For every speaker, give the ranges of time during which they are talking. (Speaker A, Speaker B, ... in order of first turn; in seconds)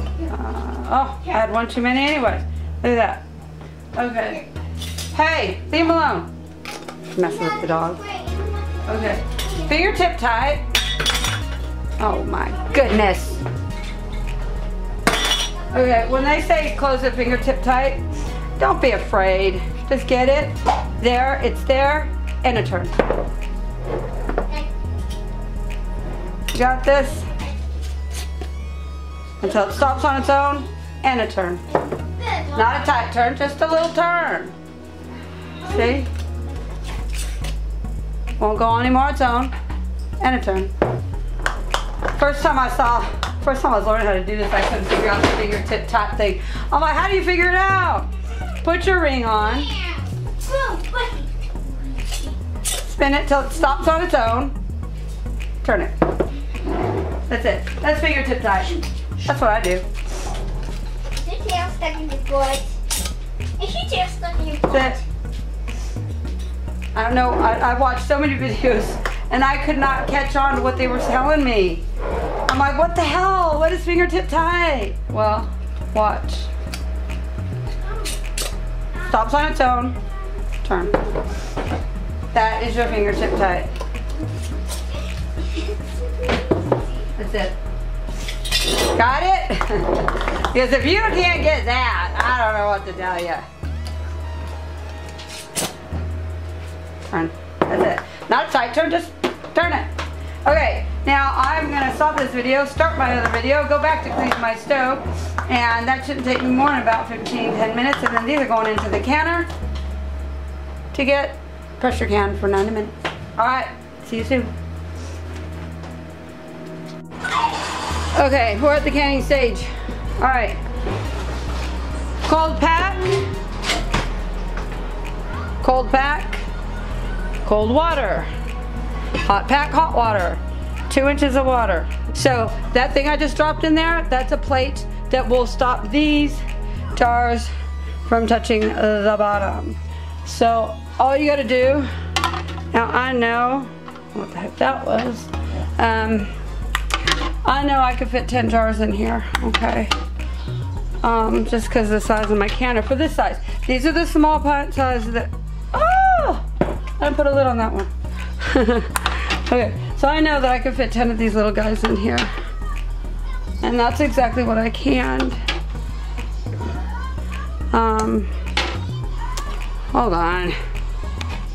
Speaker A: 0.3-3.3, 4.0-4.5, 5.1-6.3, 7.2-8.0, 8.9-10.7, 12.0-13.4, 15.7-18.1, 18.6-22.9, 26.5-27.3, 29.4-31.6, 32.5-34.5, 35.6-36.1, 38.4-39.5, 40.2-40.7, 42.2-48.1, 48.6-49.7, 52.8-54.6, 55.6-55.9, 57.3-59.9, 64.7-65.0, 67.0-71.8, 72.5-76.5, 79.0-80.0, 80.6-81.0, 82.3-83.7, 87.2-87.6, 88.7-93.5, 97.1-99.9, 100.5-109.5, 110.9-114.5, 118.2-120.6, 122.2-123.1, 125.6-126.5, 127.5-128.3, 129.2-136.4, 136.9-137.5, 138.1-141.9, 142.7-146.3, 147.4-149.9, 151.0-156.5, 157.0-162.3, 163.6-165.4, 167.7-168.3, 169.9-170.6
Speaker B: 7.2-9.8, 31.8-32.8, 49.5-52.3, 61.1-62.7, 63.6-65.0, 85.5-86.4